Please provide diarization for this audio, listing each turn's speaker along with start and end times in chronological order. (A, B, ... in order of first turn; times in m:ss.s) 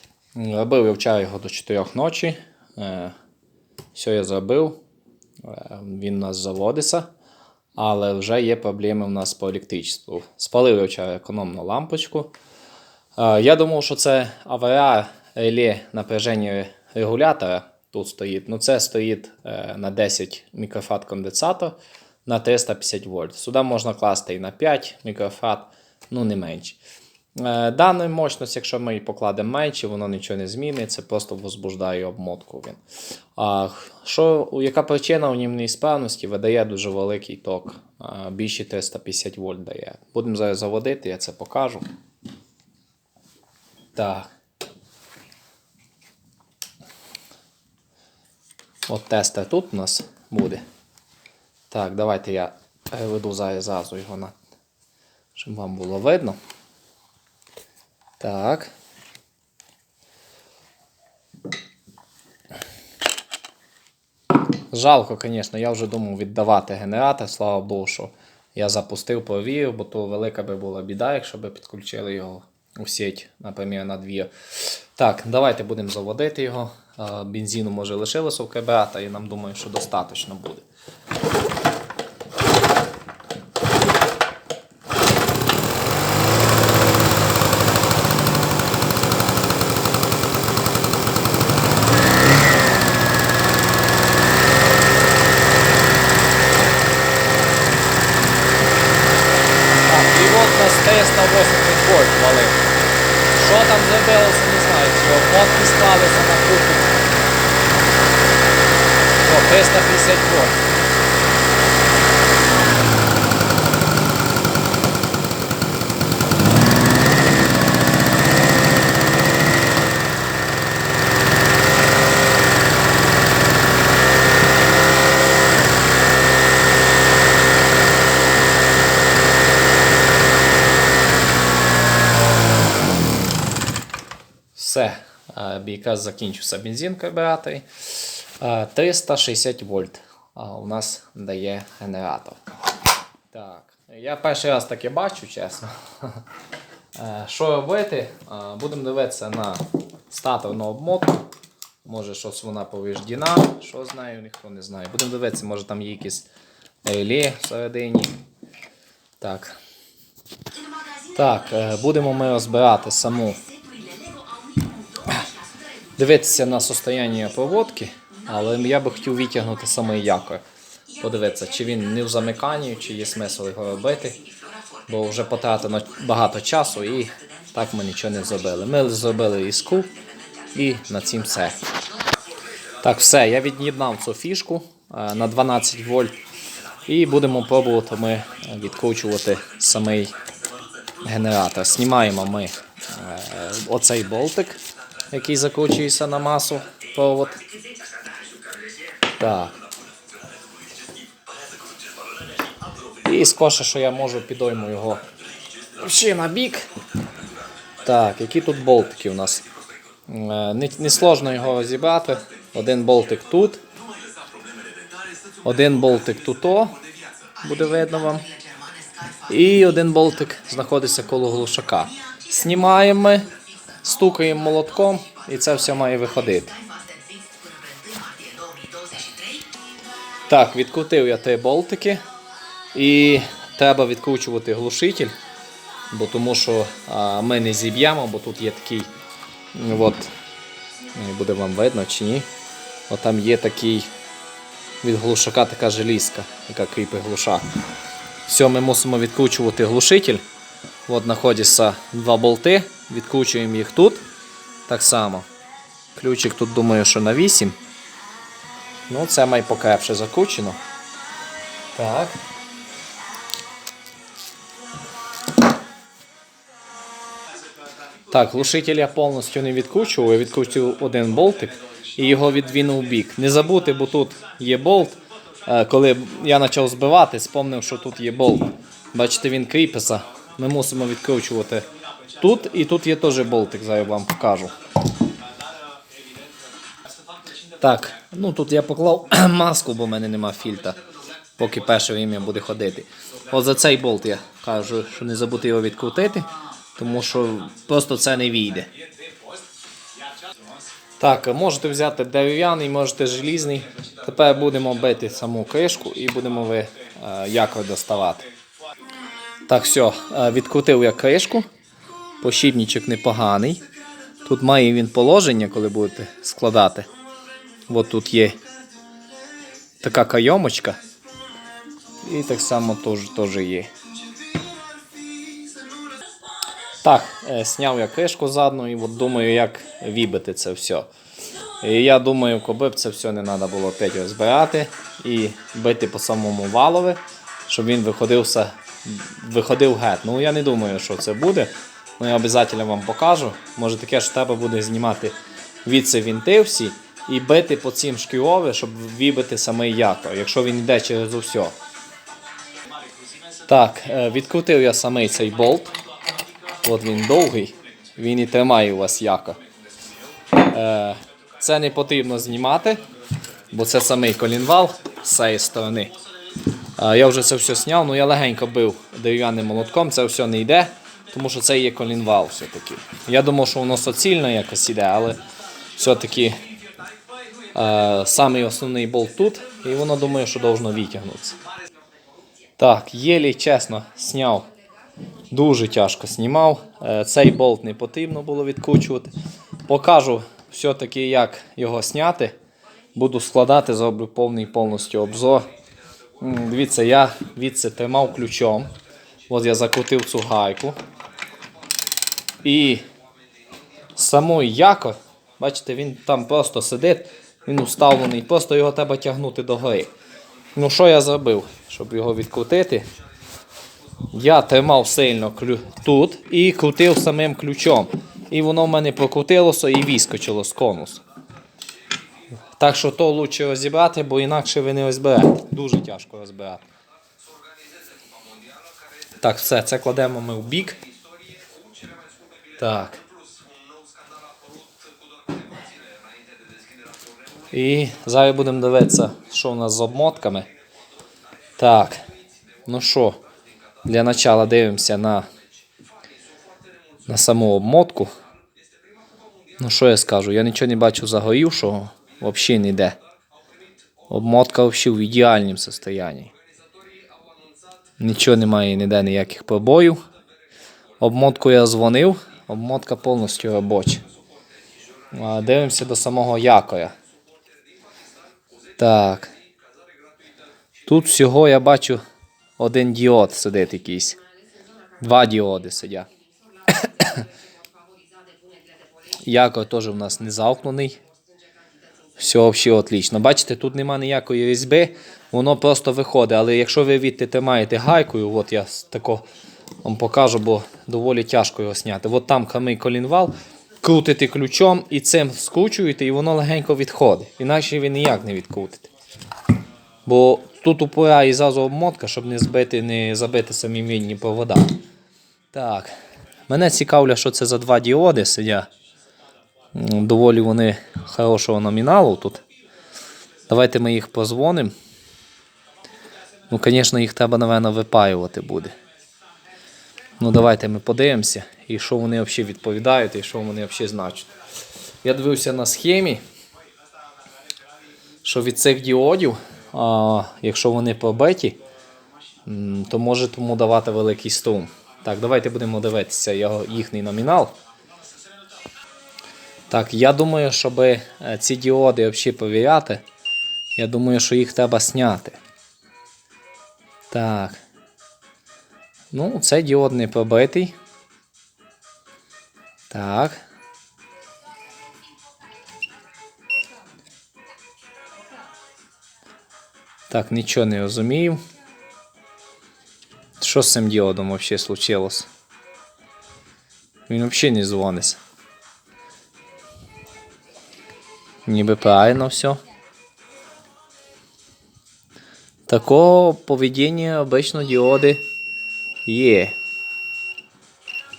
0:00.3-0:03.1 A
0:03.9-0:04.8 A
0:05.4-0:07.1 A
0:07.8-0:12.3 A
0:13.2-0:26.8 A
0:27.4-0:32.8 A
0:33.4-0:41.8 A
0:43.9-0:44.3 A
0:48.9-0:50.6 A
0:51.7-0:54.3 A
0:55.4-0:56.4 A
0:58.2-0:58.7 A
1:04.7-1:20.6 A
1:39.8-1:42.6 A
1:43.3-1:47.0 A
1:49.2-1:50.6 A
2:14.5-2:22.4 A
2:23.3-2:26.2 A
2:27.0-2:31.3 A
2:31.8-2:36.3 A
2:36.8-2:38.2 A
2:39.2-2:39.6 A
2:41.1-2:43.4 A
2:46.0-2:50.4 A
2:51.0-2:54.2 A
2:54.9-2:59.9 A
3:00.5-3:01.6 A
3:02.8-3:06.2 A
3:06.9-3:10.1 A
3:11.0-3:14.6 A
3:15.1-3:17.4 A
3:19.2-3:19.5 A
3:23.0-3:25.0 A
3:25.8-3:26.7 A
3:27.8-3:29.4 A
3:30.1-3:33.6 A
3:35.4-3:36.8 A
3:37.4-3:38.3 A
3:39.3-3:43.3 A
3:43.8-3:46.6 A
3:50.3-3:52.0 A
3:52.7-3:55.1 A
3:55.9-3:58.9 A
3:59.5-4:00.1 A
4:00.9-4:02.3 A
4:02.9-4:03.9 A
4:04.8-4:07.4 A
4:08.3-4:10.2 A
4:10.9-4:14.0 A
4:14.7-4:15.2 A
4:15.9-4:17.6 A
4:18.9-4:20.6 A
4:21.7-4:22.2 A
4:28.1-4:41.6 A
4:42.2-4:44.5 A
4:47.6-4:50.8 A
4:51.4-4:58.7 A
5:01.0-5:08.3 A
5:09.5-5:11.4 A
5:12.2-5:13.6 A
5:14.2-5:16.9 A
5:17.7-5:18.4 A
5:19.8-5:20.8 A
5:22.0-5:23.7 A
5:26.8-5:30.9 A
5:31.6-5:51.5 A
5:53.5-5:55.8 A
5:56.6-5:59.4 A
6:00.3-6:02.8 A
6:03.5-6:05.9 A
6:06.8-6:15.2 A
6:15.8-6:16.3 A
6:17.5-6:21.4 A
6:22.6-6:24.5 A
6:25.3-6:29.1 A
6:29.6-6:32.3 A
6:32.9-6:35.4 A
6:36.2-6:38.7 A
6:39.3-6:40.8 A
6:42.4-6:42.8 A
6:44.0-6:49.9 A
6:50.5-6:52.8 A
6:54.1-7:01.0 A
7:02.6-7:06.6 A
7:09.2-7:10.8 A
7:12.6-7:13.0 A
7:17.5-7:20.5 A
7:21.6-7:22.0 A
7:22.6-7:23.2 A
7:23.8-7:25.2 A
7:27.1-7:28.1 A
7:29.6-7:33.0 A
7:34.1-7:36.3 A
7:38.0-7:40.0 A
7:41.0-7:44.0 A
7:45.1-7:46.9 A
7:48.8-7:49.3 A
7:50.9-7:52.0 A
7:52.6-7:54.2 A
7:55.0-7:56.1 A
7:56.7-7:57.2 A
7:59.2-8:01.0 A
8:02.2-8:09.2 A
8:09.8-8:18.9 A
8:20.0-8:24.8 A
8:25.5-8:25.9 A
8:26.5-8:28.7 A
8:29.7-8:32.4 A
8:33.5-8:34.7 A
8:36.5-8:38.7 A
8:40.2-8:44.3 A
8:45.0-8:46.2 A
8:48.2-8:51.6 A
8:52.4-8:57.5 A
8:59.7-9:03.0 A
9:03.8-9:05.4 A
9:07.1-9:07.6 A
9:09.1-9:10.7 A
9:12.9-9:13.4 A
9:20.1-9:21.4 A
9:23.4-9:25.3 A
9:27.1-9:28.2 A
9:31.4-9:32.6 A
9:35.7-9:38.2 A
9:39.0-9:39.6 A